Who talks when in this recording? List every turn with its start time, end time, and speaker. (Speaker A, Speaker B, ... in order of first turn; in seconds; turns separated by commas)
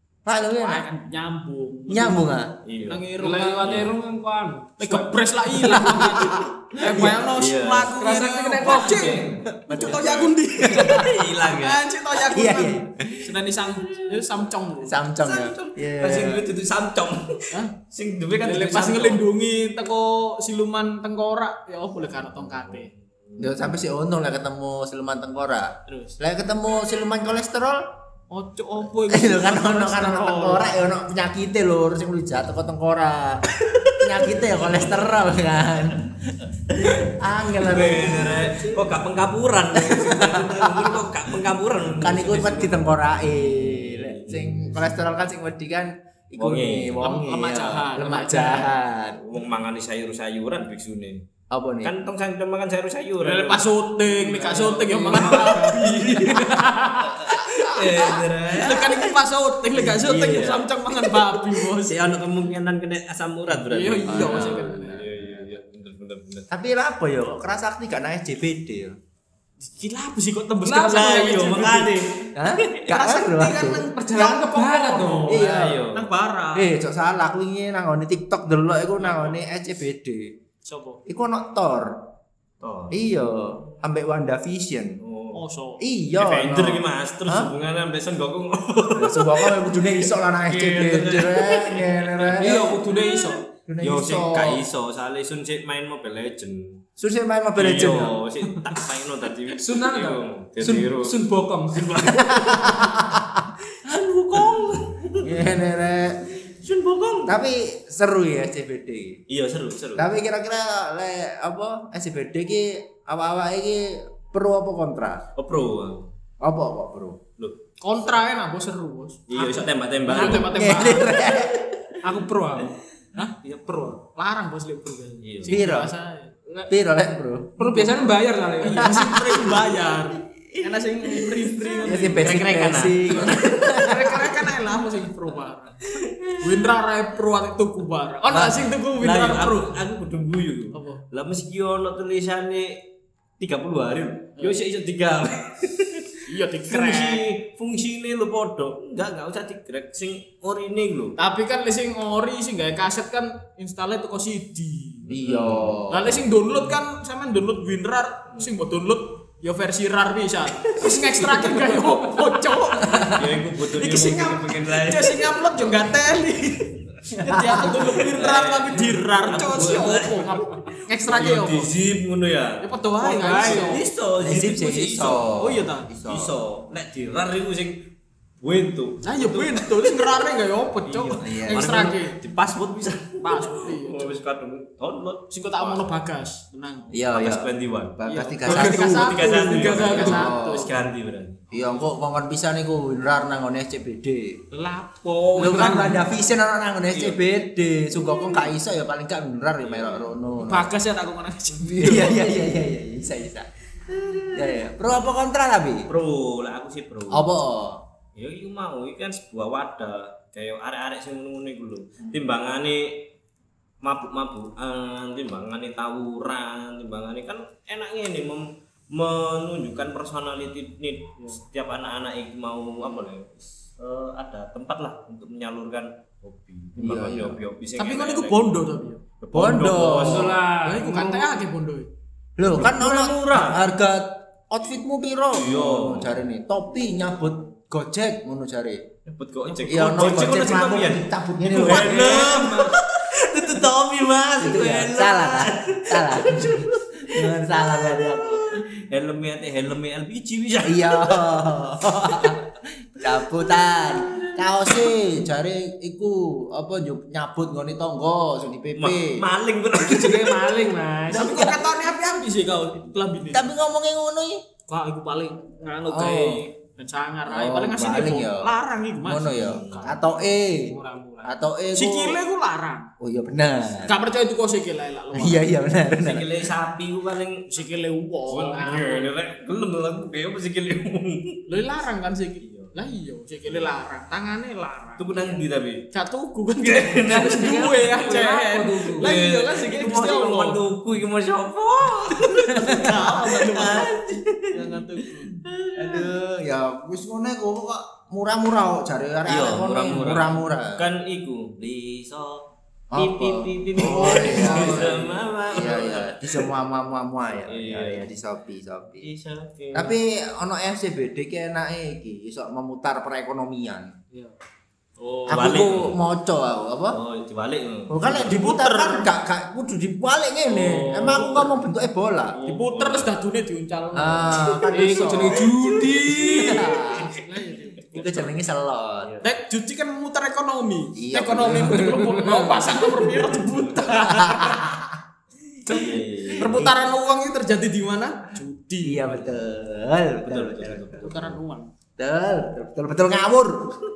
Speaker A: 0.2-0.8, Speaker B: 0.6-2.3, Speaker A: 1.9-2.6, Speaker C: 2.6-3.9, Speaker B: 2.8-3.8, Speaker D: 3.2-5.9, Speaker B: 4.8-15.1, Speaker A: 5.9-7.2, Speaker C: 7.2-8.0, Speaker D: 7.9-9.4, Speaker C: 8.6-9.0, Speaker A: 9.2-11.2, Speaker C: 9.7-11.8, Speaker A: 12.2-13.3, Speaker A: 14.8-16.5, Speaker C: 15.2-19.2, Speaker B: 18.4-22.9, Speaker C: 22.4-23.6, Speaker A: 23.4-27.9, Speaker B: 25.9-26.2, Speaker B: 28.3-30.8, Speaker A: 29.1-38.7, Speaker C: 34.5-35.2, Speaker C: 36.7-45.0, Speaker A: 39.7-41.0, Speaker A: 42.0-49.2, Speaker C: 46.4-47.1, Speaker B: 47.0-48.7, Speaker C: 49.2-51.2, Speaker A: 51.5-51.9, Speaker C: 51.8-53.7, Speaker B: 53.2-56.7, Speaker D: 54.0-57.5, Speaker C: 55.1-56.4, Speaker C: 57.1-59.0, Speaker B: 57.2-62.0, Speaker C: 59.8-61.1, Speaker A: 60.1-60.6, Speaker C: 61.6-66.5, Speaker B: 63.6-65.4, Speaker A: 64.0-64.7, Speaker A: 66.5-69.0, Speaker B: 69.6-72.0, Speaker D: 70.7-71.2, Speaker C: 70.7-73.1, Speaker A: 72.3-73.9, Speaker B: 72.9-76.7, Speaker D: 73.5-75.4, Speaker C: 75.3-76.1, Speaker A: 75.3-75.8, Speaker A: 76.5-80.3, Speaker B: 79.0-79.3, Speaker B: 80.6-81.0, Speaker A: 81.0-82.0, Speaker C: 82.6-83.0, Speaker A: 82.9-85.0, Speaker C: 85.0-85.4, Speaker B: 85.3-85.8, Speaker A: 85.8-87.5, Speaker C: 86.1-93.2, Speaker A: 88.9-92.8, Speaker D: 92.4-93.5, Speaker A: 93.7-94.6, Speaker C: 93.8-96.8, Speaker A: 97.0-98.2, Speaker C: 97.6-102.9, Speaker D: 99.6-102.4, Speaker A: 102.3-103.5, Speaker C: 103.8-105.2, Speaker A: 104.4-106.5, Speaker C: 106.6-107.4, Speaker A: 107.3-109.2, Speaker C: 109.3-110.1, Speaker A: 110.0-115.3, Speaker C: 115.3-116.1, Speaker A: 116.4-117.2, Speaker B: 117.8-121.2, Speaker C: 119.3-120.7, Speaker A: 120.2-122.0, Speaker D: 122.0-122.8, Speaker B: 123.2-126.3, Speaker C: 123.4-124.0, Speaker C: 125.2-125.7, Speaker A: 125.5-125.9, Speaker A: 126.7-127.8, Speaker D: 127.6-129.2, Speaker B: 128.6-132.4, Speaker A: 128.9-129.6, Speaker A: 131.0-134.5, Speaker C: 132.0-133.8, Speaker B: 133.1-135.8, Speaker C: 136.0-136.4, Speaker B: 136.4-139.7, Speaker C: 138.3-142.8, Speaker B: 140.7-141.0, Speaker C: 143.4-151.2, Speaker B: 146.2-147.2, Speaker B: 151.2-155.1, Speaker A: 155.1-156.2, Speaker C: 155.2-155.8, Speaker B: 155.9-171.7, Speaker D: 161.4-162.1, Speaker A: 162.9-163.2, Speaker C: 163.0-165.7, Speaker A: 167.4-167.8, Speaker C: 167.7-175.3, Speaker D: 170.2-170.6, Speaker B: 172.6-173.8, Speaker D: 173.0-173.8, Speaker A: 174.2-176.3, Speaker B: 175.3-175.8, Speaker C: 176.0-177.8, Speaker C: 178.4-179.8, Speaker B: 179.0-182.2, Speaker C: 180.8-185.8, Speaker A: 181.2-181.8, Speaker B: 183.2-184.1, Speaker B: 185.3-187.0, Speaker A: 186.9-190.7, Speaker C: 187.1-191.4, Speaker B: 188.1-190.7, Speaker A: 191.5-194.4, Speaker B: 191.5-191.8, Speaker B: 194.5-196.1, Speaker A: 195.3-200.7, Speaker C: 196.9-197.2, Speaker C: 199.6-200.1, Speaker B: 200.4-202.2, Speaker A: 201.6-203.5, Speaker A: 204.3-205.9, Speaker C: 205.9-207.3, Speaker A: 207.1-207.8, Speaker C: 208.2-213.1, Speaker C: 213.8-228.6, Speaker A: 226.8-227.4, Speaker B: 227.8-229.0, Speaker C: 229.2-230.4, Speaker A: 229.3-230.4, Speaker D: 230.0-231.3, Speaker B: 230.6-231.9, Speaker A: 232.4-238.9, Speaker C: 232.5-233.6, Speaker C: 235.3-236.2, Speaker C: 239.1-251.4, Speaker A: 239.7-242.5, Speaker D: 241.6-242.7, Speaker B: 241.6-242.6, Speaker A: 244.4-248.6, Speaker A: 250.6-259.2, Speaker C: 258.7-260.6, Speaker D: 259.8-261.6, Speaker B: 261.1-263.5, Speaker A: 263.3-264.4, Speaker B: 264.7-269.9, Speaker A: 265.9-266.4, Speaker A: 267.3-272.2, Speaker C: 269.4-270.0, Speaker D: 270.7-271.3, Speaker B: 271.7-272.9, Speaker A: 273.0-273.9, Speaker B: 273.8-275.5, Speaker A: 275.1-276.3, Speaker C: 275.9-277.5, Speaker B: 277.5-279.1, Speaker C: 278.3-281.4, Speaker B: 281.5-285.4, Speaker C: 282.4-282.7, Speaker C: 285.0-285.9, Speaker B: 285.9-290.6, Speaker C: 286.6-288.0, Speaker D: 287.1-289.1, Speaker C: 288.9-294.8, Speaker B: 292.3-295.4, Speaker A: 292.5-292.9, Speaker C: 295.3-296.0, Speaker A: 295.7-300.8, Speaker C: 299.2-306.5, Speaker A: 302.9-309.1, Speaker B: 303.9-305.0, Speaker C: 307.5-308.1, Speaker C: 309.0-309.9, Speaker A: 309.7-313.9, Speaker B: 315.0-315.4, Speaker C: 315.3-316.0, Speaker A: 315.3-317.0, Speaker C: 316.9-318.4, Speaker A: 317.9-322.4, Speaker B: 318.2-319.1, Speaker B: 320.5-321.5, Speaker C: 320.8-321.1, Speaker C: 322.4-323.1, Speaker B: 322.4-325.1, Speaker A: 323.9-325.5, Speaker D: 324.7-326.9, Speaker C: 325.4-326.6, Speaker A: 326.0-327.1, Speaker B: 326.9-328.4, Speaker A: 327.9-329.1, Speaker C: 329.0-329.3, Speaker B: 329.2-334.6, Speaker A: 330.9-331.9, Speaker D: 331.4-333.1, Speaker C: 333.3-333.9, Speaker A: 333.8-335.0, Speaker D: 335.6-336.0, Speaker C: 335.7-336.5, Speaker B: 336.4-339.1, Speaker A: 336.4-336.7, Speaker A: 338.8-341.1, Speaker C: 340.2-341.4, Speaker B: 341.0-341.7, Speaker A: 342.0-343.8